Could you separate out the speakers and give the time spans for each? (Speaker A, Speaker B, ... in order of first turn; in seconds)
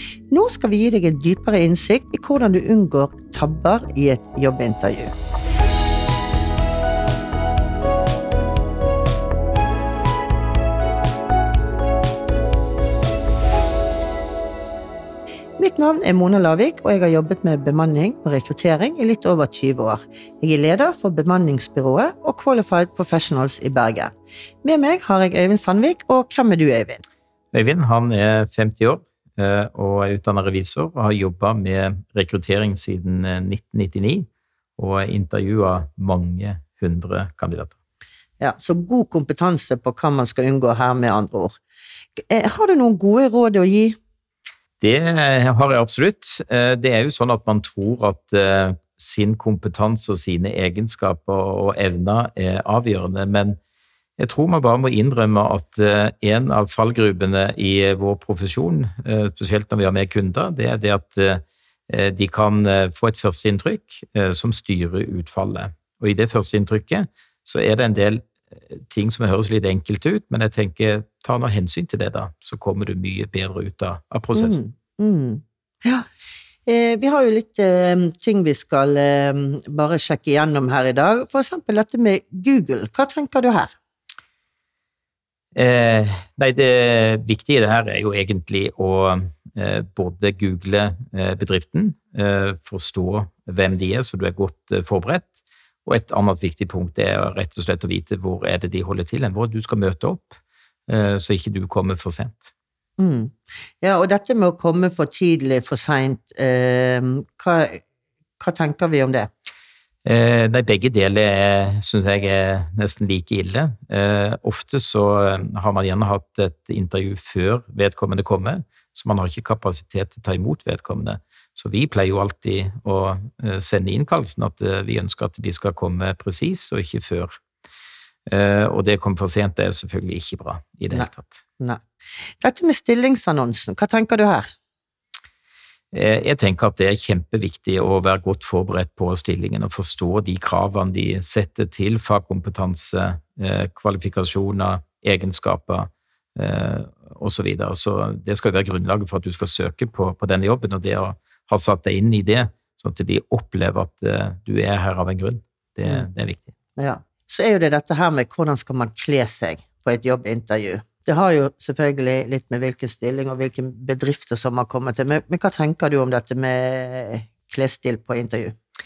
Speaker A: 0.3-5.1, 15.6-24.1, 24.6-27.0, 38.4-41.5, 42.2-44.0, 74.3-76.0, 76.7-83.7, 103.0-107.8, 108.4-109.3, 130.9-131.8, 132.4-134.5, 156.8-168.5
Speaker B: 27.5-37.7, 44.8-53.6, 54.2-74.6, 85.5-102.5, 110.0-127.3, 128.3-131.4, 135.9-156.5